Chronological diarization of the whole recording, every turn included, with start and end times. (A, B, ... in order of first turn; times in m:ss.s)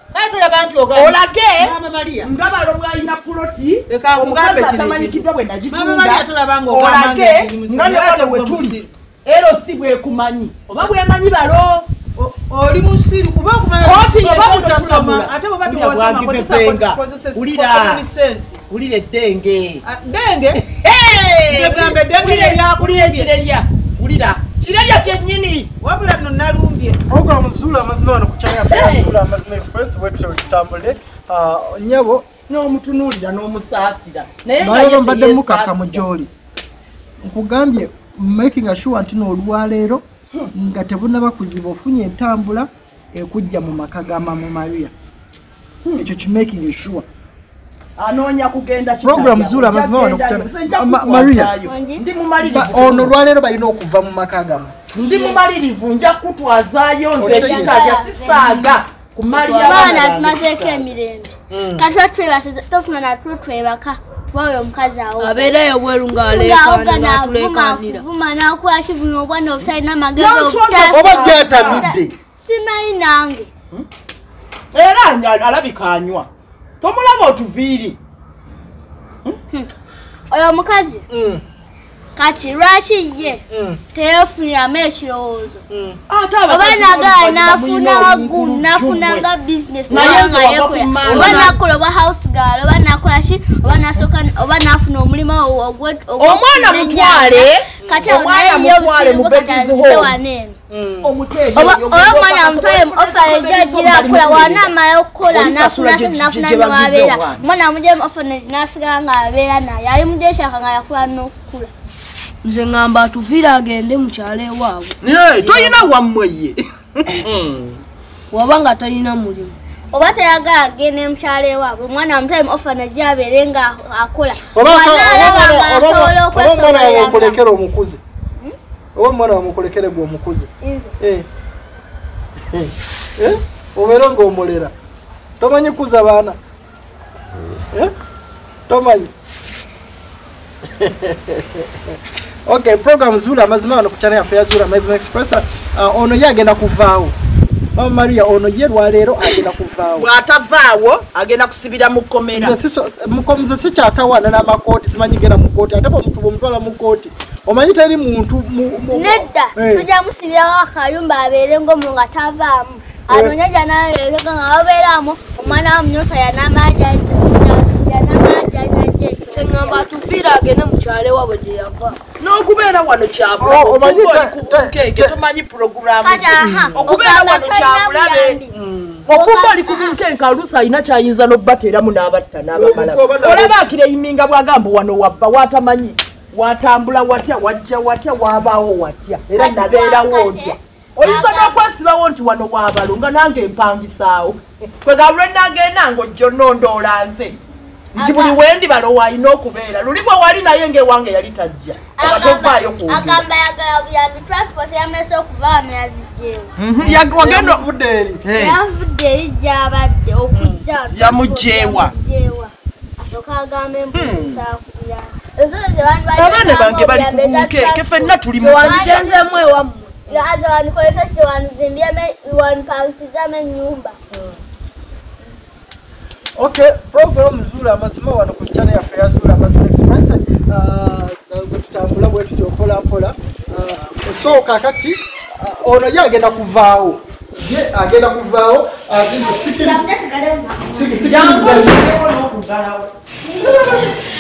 0:00.1-0:02.3 A
0:00.9-0:11.9 B
0:03.9-0:08.9 A
0:12.2-0:18.6 A
0:13.8-0:18.1 B
0:18.7-0:19.8 B
0:19.8-0:20.7 A
0:20.8-0:25.7 B
0:21.5-0:23.3 A
0:25.8-0:27.0 A
0:27.1-0:32.3 C
0:28.5-0:29.2 B
0:32.5-0:36.0 B
0:34.6-0:36.3 C
0:37.2-0:44.9 C
0:45.8-0:46.1 B
0:46.0-0:47.1 C
0:48.0-0:53.1 B
0:49.0-0:51.6 C
0:51.6-0:52.0 D
0:52.4-0:54.7 C
0:54.9-1:00.9 B
0:55.0-0:55.4 D
0:57.2-0:58.0 C
0:57.2-0:58.8 D
0:59.5-1:05.6 D
0:59.6-1:00.0 C
1:01.5-1:01.9 C
1:05.2-1:08.1 E
1:06.1-1:13.5 D
1:10.2-1:11.9 B
1:10.9-1:12.1 C
1:14.7-1:16.3 B
1:16.8-1:18.0 B
1:20.3-1:21.0 D
1:21.1-1:21.4 C
1:22.2-1:23.4 D
1:23.5-1:23.8 C
1:23.9-1:25.6 D
1:25.7-1:26.0 C
1:26.1-1:29.3 B
1:26.5-1:40.6 D
1:29.9-1:31.6 B
1:29.9-1:30.2 C
1:31.0-1:31.6 C
1:36.2-1:40.2 B
1:37.8-1:38.2 C
1:40.7-1:41.8 C
1:41.0-1:44.8 B
1:41.5-1:51.7 D
1:45.3-1:47.4 B
1:52.4-1:55.8 E
1:55.0-1:57.8 B
1:58.3-1:59.6 E
1:59.9-2:07.4 D
2:04.5-2:08.0 C
2:09.0-2:11.3 C
2:10.6-2:10.9 D
2:12.5-2:14.7 C
2:15.4-2:16.4 C
2:17.5-2:17.9 C
2:18.7-2:19.1 C
2:20.7-2:27.1 C
2:27.8-2:30.1 C
2:30.0-2:32.6 B
2:32.4-2:39.9 C
2:38.9-2:50.0 D
2:43.1-2:43.4 C
2:49.3-2:52.0 E
2:52.2-2:58.4 B
2:53.4-2:55.2 C
2:56.0-2:58.6 D
2:56.4-2:56.9 C
2:58.5-2:59.1 C
2:59.1-3:00.0 D
2:59.1-3:17.4 B
3:02.5-3:03.6 C
3:09.3-3:11.6 D
3:17.9-3:23.2 B
3:18.0-3:18.4 D
3:22.0-3:26.5 D
3:26.6-3:27.6 B
3:26.8-3:28.2 C
3:28.2-3:28.6 B
3:28.3-3:39.2 D
3:30.3-3:30.6 C
3:30.9-3:31.9 B
3:33.9-3:34.4 B
3:36.2-3:39.1 B
3:38.3-3:40.0 E
3:40.1-3:44.0 D
3:44.1-3:44.4 C
3:46.4-3:59.9 C
3:59.2-4:01.4 D
4:00.6-4:01.9 C
4:01.0-4:02.9 B
4:03.4-4:03.9 C
4:03.4-4:03.8 D